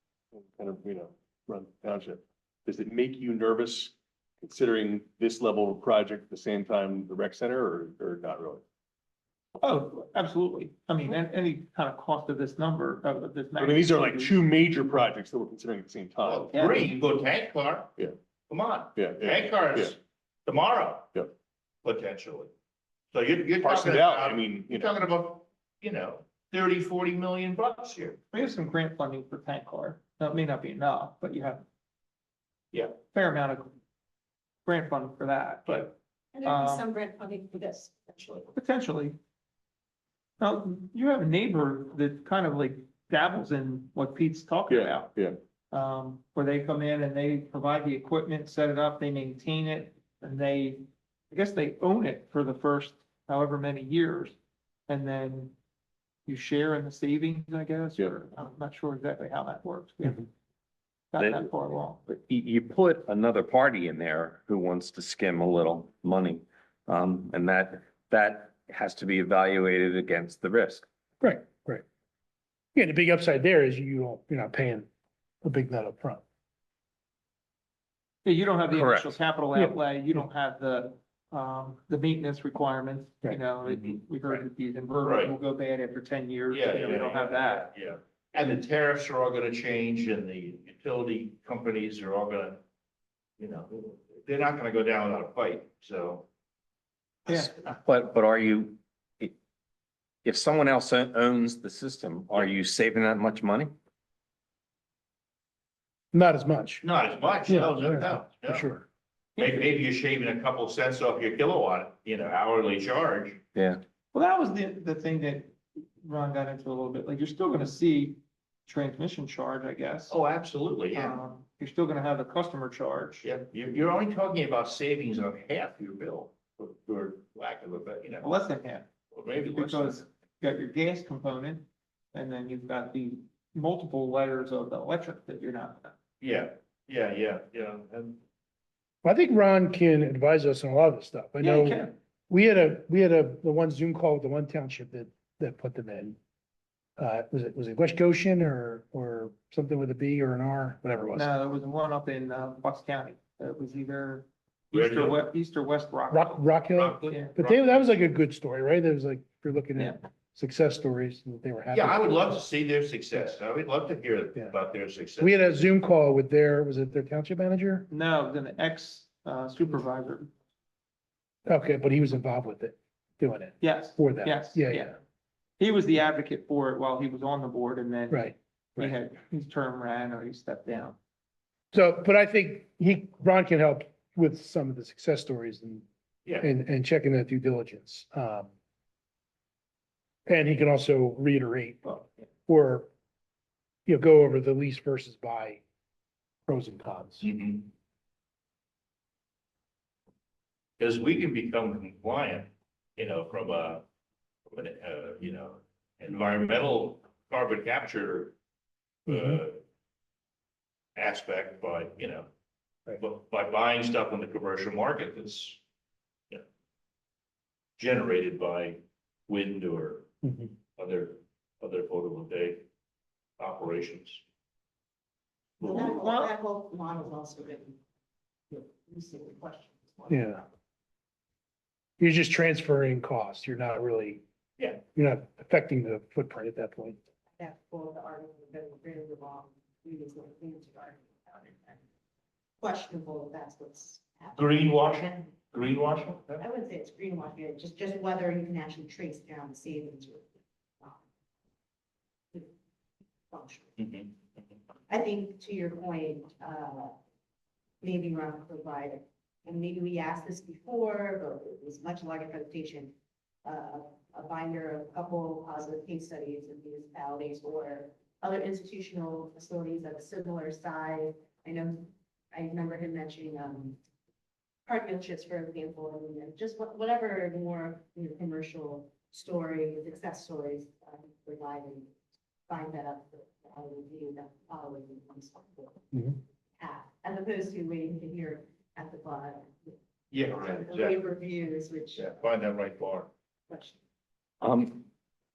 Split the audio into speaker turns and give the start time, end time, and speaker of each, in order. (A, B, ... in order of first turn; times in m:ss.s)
0:00.3-0:08.6 A
0:09.6-0:14.4 B
0:13.6-0:16.8 A
0:16.2-0:17.9 C
0:16.5-0:17.1 B
0:18.5-0:21.2 C
0:19.0-0:19.9 A
0:21.8-0:22.5 C
0:23.1-0:28.2 C
0:23.6-0:25.0 A
0:28.3-0:31.6 B
0:32.9-0:33.7 B
0:34.6-0:36.8 B
0:36.3-0:38.5 D
0:38.5-0:39.2 B
0:40.4-0:45.1 B
0:44.7-0:45.4 A
0:45.7-0:54.4 B
0:54.9-0:55.5 B
0:56.3-1:00.3 B
1:01.1-1:02.0 B
1:01.2-1:01.5 E
1:02.0-1:10.8 E
1:11.2-1:11.8 F
1:12.7-1:14.9 F
1:15.4-1:16.2 F
1:18.2-1:27.7 B
1:18.7-1:19.2 E
1:23.6-1:24.4 C
1:25.0-1:25.3 C
1:26.5-1:32.6 C
1:33.4-1:36.3 C
1:37.3-1:37.5 B
1:37.3-1:37.6 C
1:37.7-1:39.3 E
1:40.2-1:43.7 E
1:46.1-1:46.8 F
1:46.8-1:48.6 C
1:47.4-1:48.8 F
1:49.4-1:53.4 C
1:53.6-1:53.8 E
1:54.1-2:00.2 B
2:00.1-2:01.2 C
2:00.9-2:03.2 B
2:03.2-2:08.3 C
2:08.2-2:08.8 B
2:09.1-2:10.0 C
2:09.4-2:15.9 B
2:16.2-2:18.2 C
2:19.0-2:26.2 F
2:21.4-2:21.9 B
2:27.0-2:31.3 F
2:31.1-2:37.4 B
2:34.7-2:35.3 C
2:36.1-2:42.2 F
2:36.6-2:37.8 C
2:41.7-2:45.3 C
2:45.2-2:47.9 F
2:47.9-2:50.3 B
2:51.4-2:54.9 F
2:53.6-2:55.0 B
2:55.6-3:01.0 B
2:58.1-2:58.9 F
3:01.7-3:05.8 F
3:06.4-3:08.5 F
3:10.3-3:12.9 F
3:13.9-3:15.6 F
3:16.5-3:17.2 F
3:17.2-3:17.7 C
3:20.8-3:23.8 C
3:24.5-3:28.3 C
3:29.0-3:29.6 C
3:29.1-3:29.4 F
3:31.0-3:32.3 C
3:33.0-3:35.6 C
3:37.8-3:40.1 C
3:40.2-3:40.5 F
3:40.8-3:42.6 C
3:43.4-3:44.2 C
3:45.6-3:46.3 B
3:45.6-3:47.8 D
3:48.5-3:50.4 D
3:50.1-3:50.4 F
3:52.0-3:54.2 F
3:54.9-3:57.0 F
3:57.4-4:01.8 D
4:02.6-4:05.0 D
4:04.4-4:06.4 C
4:06.4-4:10.3 D
4:13.3-4:13.8 D
4:13.8-4:14.1 C
4:14.9-4:16.9 D
4:17.8-4:22.9 D
4:23.4-4:33.8 D
4:34.6-4:41.9 D
4:42.5-4:45.8 D
4:46.6-4:49.7 D
4:50.1-4:51.0 C
4:50.3-4:52.3 D
4:52.0-4:53.1 C
4:53.5-4:53.8 D
4:54.4-4:54.8 E